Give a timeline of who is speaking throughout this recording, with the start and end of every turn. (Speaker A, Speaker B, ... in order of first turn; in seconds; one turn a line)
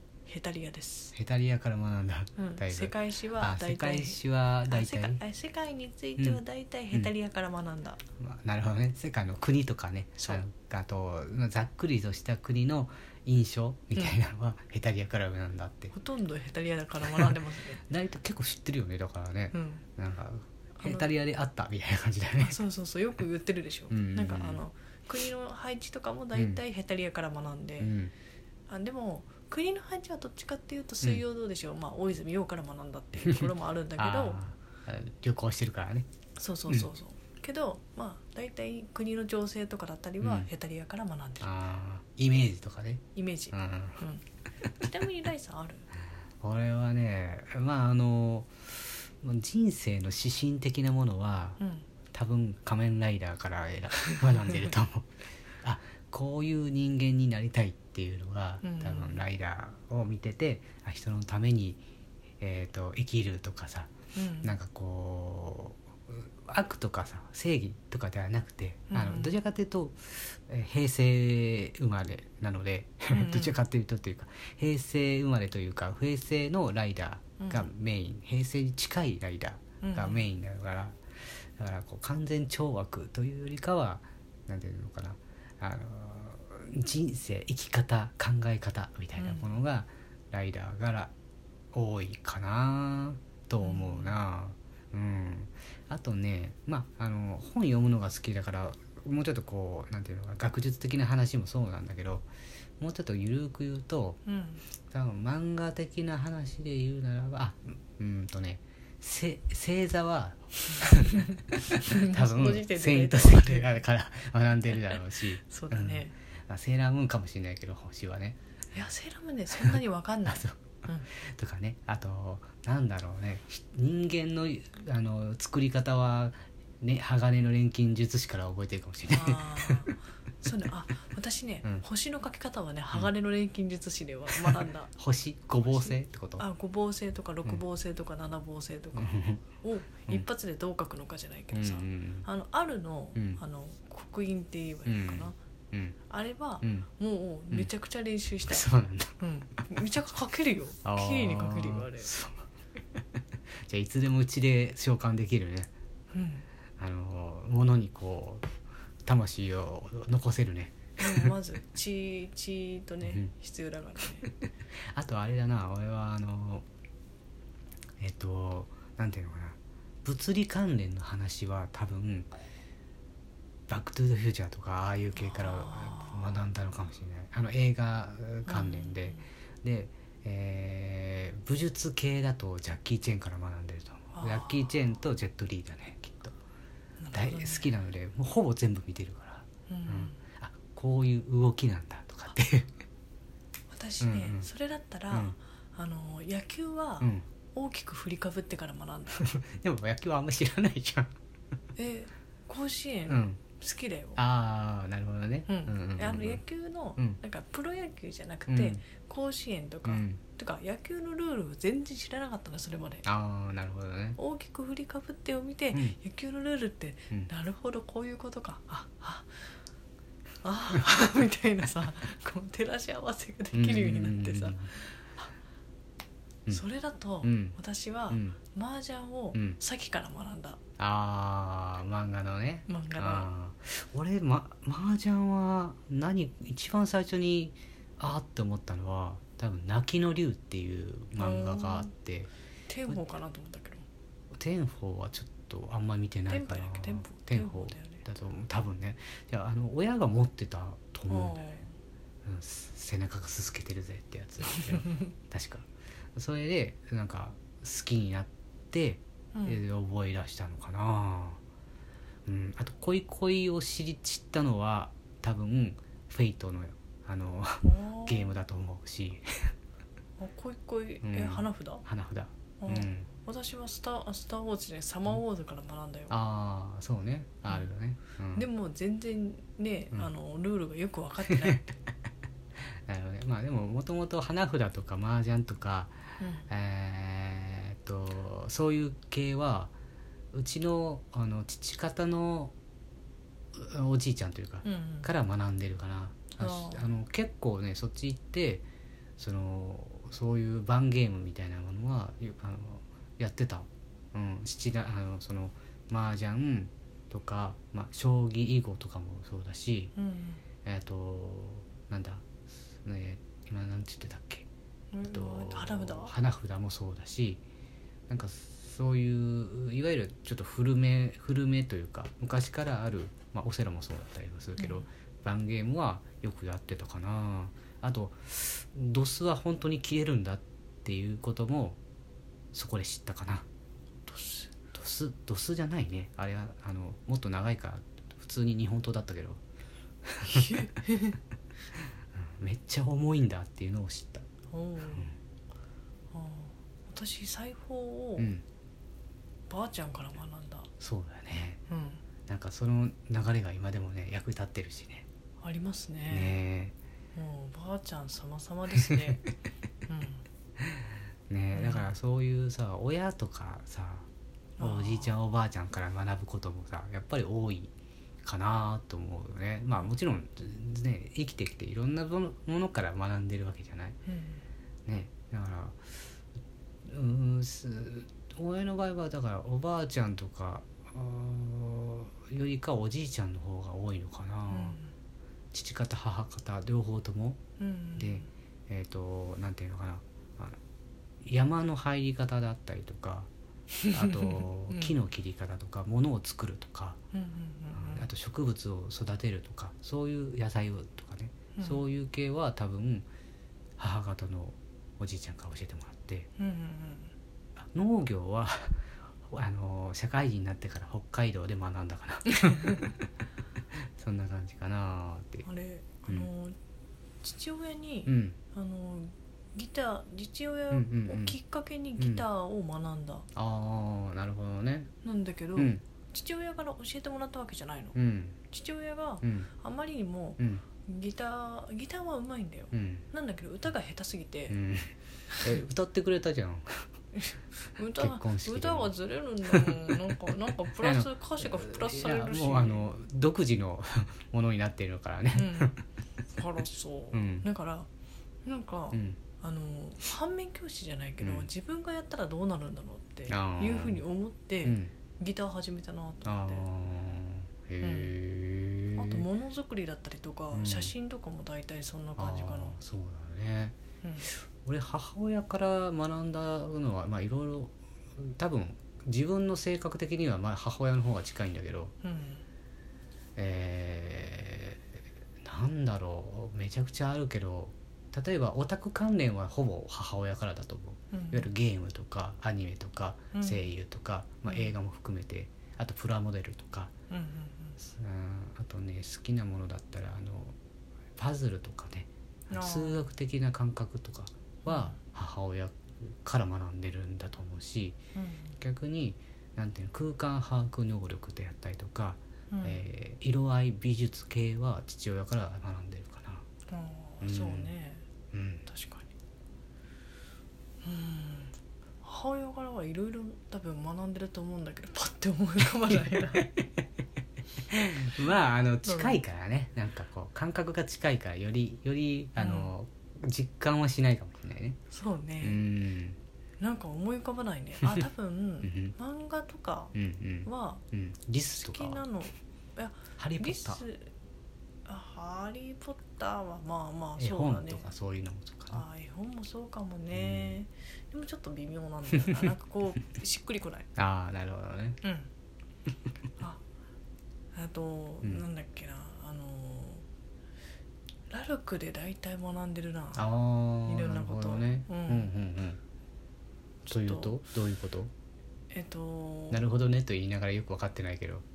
Speaker A: 0.2-1.1
Speaker B: 1.1-5.2
Speaker A: 2.4-8.0
Speaker B: 8.1-15.9
Speaker A: 10.2-10.4
Speaker A: 15.9-17.8
Speaker B: 17.0-22.6
Speaker A: 19.5-19.8
Speaker A: 20.8-21.1
Speaker A: 22.4-27.9
Speaker B: 23.9-24.6
Speaker B: 26.3-26.6
Speaker B: 27.8-28.1
Speaker A: 28.7-34.4
Speaker B: 33.2-36.1
Speaker A: 36.4-41.5
Speaker B: 40.2-40.5
Speaker B: 41.4-44.0
Speaker A: 43.1-44.2
Speaker A: 44.8-45.9
Speaker B: 46.4-55.1
Speaker A: 51.6-51.9
Speaker B: 55.6-61.8
Speaker A: 58.6-59.2
Speaker B: 62.4-91.1
Speaker A: 64.1-64.5
Speaker A: 68.9-69.4
Speaker A: 73.1-73.6
Speaker A: 77.4-77.7
Speaker A: 79.8-80.3
Speaker A: 89.2-89.6
Speaker B: 91.7-102.3
Speaker A: 93.6-94.2
Speaker B: 102.8-104.2
Speaker A: 104.2-104.6
Speaker B: 104.8-118.4
Speaker A: 111.8-113.8
Speaker A: 114.7-116.1
Speaker A: 118.7-121.1
Speaker B: 119.6-129.9
Speaker A: 129.1-134.9
Speaker B: 134.3-136.4
Speaker A: 135.7-145.3
Speaker B: 138.9-140.3
Speaker B: 141.5-142.3
Speaker B: 143.1-143.4
Speaker B: 144.8-146.0
Speaker A: 146.1-148.7
Speaker B: 146.6-146.9
Speaker B: 148.4-149.7
Speaker A: 149.2-152.1
Speaker B: 150.8-152.4
Speaker B: 153.7-155.7
Speaker A: 156.1-156.4
Speaker B: 156.8-158.4
Speaker B: 159.0-161.3
Speaker A: 161.0-164.2
Speaker B: 163.0-163.3
Speaker B: 164.0-164.3
Speaker B: 164.9-166.6
Speaker B: 168.0-172.3
Speaker B: 173.7-186.4
Speaker A: 175.1-176.4
Speaker A: 178.4-179.2
Speaker A: 184.1-184.7
Speaker A: 187.0-187.7
Speaker B: 187.1-192.7
Speaker A: 189.7-190.2
Speaker A: 193.7-199.3
Speaker B: 194.0-194.5
Speaker B: 195.1-195.4
Speaker B: 197.0-197.3
Speaker B: 199.1-201.1
Speaker A: 201.8-204.2
Speaker B: 203.1-203.5
Speaker B: 204.2-206.4
Speaker A: 205.5-213.0
Speaker B: 208.5-208.9
Speaker B: 209.8-210.2
Speaker B: 213.0-214.2
Speaker A: 214.2-219.3
Speaker B: 215.7-216.0
Speaker A: 220.4-225.0
Speaker B: 223.5-224.7
Speaker A: 226.5-230.6
Speaker B: 227.2-227.6
Speaker B: 228.1-228.4
Speaker B: 229.3-229.6
Speaker B: 230.8-242.3
Speaker A: 232.7-233.3
Speaker A: 241.2-241.9
Speaker A: 242.7-243.8
Speaker B: 244.3-251.4
Speaker A: 246.3-248.0
Speaker A: 251.1-251.7
Speaker B: 252.2-261.4
Speaker A: 259.3-259.6
Speaker B: 262.2-269.5
Speaker A: 267.6-268.4
Speaker A: 270.2-271.8
Speaker B: 271.0-273.1
Speaker A: 272.6-276.1
Speaker B: 276.1-278.5
Speaker A: 278.3-281.6
Speaker B: 281.2-281.7
Speaker B: 282.9-289.7
Speaker A: 286.2-286.5
Speaker B: 290.3-292.5
Speaker B: 293.5-298.6
Speaker A: 294.6-295.1
Speaker A: 296.3-296.8
Speaker B: 299.2-309.9
Speaker A: 309.9-310.4
Speaker B: 310.6-314.5
Speaker A: 314.9-316.1
Speaker B: 315.0-317.4
Speaker B: 318.1-331.8
Speaker A: 324.6-324.9
Speaker B: 332.5-333.4
Speaker A: 334.1-334.6
Speaker B: 334.6-339.4
Speaker B: 340.0-340.6
Speaker A: 340.3-341.2
Speaker B: 342.1-344.3
Speaker A: 344.5-345.1
Speaker B: 344.9-345.1
Speaker A: 346.1-348.3
Speaker B: 348.2-348.4
Speaker A: 349.5-350.7
Speaker B: 350.7-351.6
Speaker A: 351.7-352.0
Speaker B: 352.2-355.1
Speaker A: 355.4-356.4
Speaker B: 356.1-356.7
Speaker A: 357.1-359.2
Speaker A: 359.9-360.2
Speaker B: 361.3-364.1
Speaker A: 361.5-361.9
Speaker A: 364.6-365.1
Speaker B: 364.6-367.7
Speaker B: 368.2-374.0
Speaker A: 374.1-374.4
Speaker B: 374.9-375.8
Speaker B: 376.8-384.8
Speaker A: 384.5-384.8
Speaker B: 385.5-387.4
Speaker A: 387.6-388.2
Speaker B: 387.9-390.6
Speaker B: 391.2-393.3
Speaker A: 393.8-394.9
Speaker B: 393.9-397.0
Speaker A: 397.1-398.1
Speaker B: 397.7-403.1
Speaker A: 401.5-401.8
Speaker B: 403.8-406.3
Speaker A: 406.4-407.1
Speaker B: 407.6-408.8
Speaker B: 409.3-413.1
Speaker A: 412.4-412.8
Speaker B: 413.9-415.4
Speaker A: 415.4-416.6
Speaker B: 416.0-416.3
Speaker A: 417.2-423.3
Speaker B: 418.1-418.4
Speaker B: 420.7-421.4
Speaker B: 422.0-422.2
Speaker B: 423.3-424.9
Speaker A: 425.0-427.9
Speaker B: 425.6-425.8
Speaker B: 427.9-428.5
Speaker A: 428.5-434.6
Speaker B: 429.2-429.5
Speaker B: 430.4-430.6
Speaker B: 432.7-433.1
Speaker B: 434.5-436.9
Speaker A: 437.1-442.9
Speaker B: 437.9-445.8
Speaker A: 445.3-445.7
Speaker A: 446.3-447.9
Speaker B: 447.1-447.5
Speaker A: 448.4-456.7
Speaker B: 448.9-449.2
Speaker B: 451.2-451.5
Speaker B: 453.3-454.0
Speaker B: 454.6-455.0
Speaker B: 456.2-459.3
Speaker A: 457.8-458.1
Speaker A: 459.0-462.8
Speaker B: 460.5-460.9
Speaker B: 462.1-471.9
Speaker A: 464.0-464.3
Speaker A: 472.0-472.4
Speaker B: 473.4-474.8
Speaker B: 475.4-486.9
Speaker A: 481.1-481.5
Speaker A: 483.3-483.7
Speaker A: 484.4-484.7
Speaker A: 487.1-487.8
Speaker B: 487.8-490.6
Speaker B: 491.1-498.0
Speaker A: 492.5-493.1
Speaker A: 494.6-494.9
Speaker A: 498.1-498.5
Speaker B: 498.5-506.4
Speaker A: 502.5-502.8
Speaker A: 506.7-508.0
Speaker B: 507.2-507.7
Speaker B: 508.3-508.7
Speaker A: 508.7-509.1
Speaker A: 510.8-516.5
Speaker B: 515.9-516.7
Speaker B: 517.7-524.8
Speaker A: 518.8-519.2
Speaker A: 522.4-522.7
Speaker A: 524.9-525.6
Speaker B: 525.4-526.2
Speaker A: 526.6-529.9
Speaker B: 528.6-529.0
Speaker B: 529.9-532.0
Speaker A: 530.5-530.8
Speaker A: 531.6-534.1
Speaker B: 533.1-533.8
Speaker A: 534.8-537.9
Speaker B: 537.2-538.8
Speaker A: 538.7-543.9
Speaker B: 540.1-540.6
Speaker B: 543.9-545.0
Speaker A: 545.0-545.3
Speaker A: 547.5-550.0
Speaker A: 551.3-553.3
Speaker B: 553.1-555.8
Speaker A: 553.8-555.3
Speaker A: 556.9-557.4
Speaker B: 556.9-558.1
Speaker A: 558.7-559.6
Speaker B: 559.5-561.4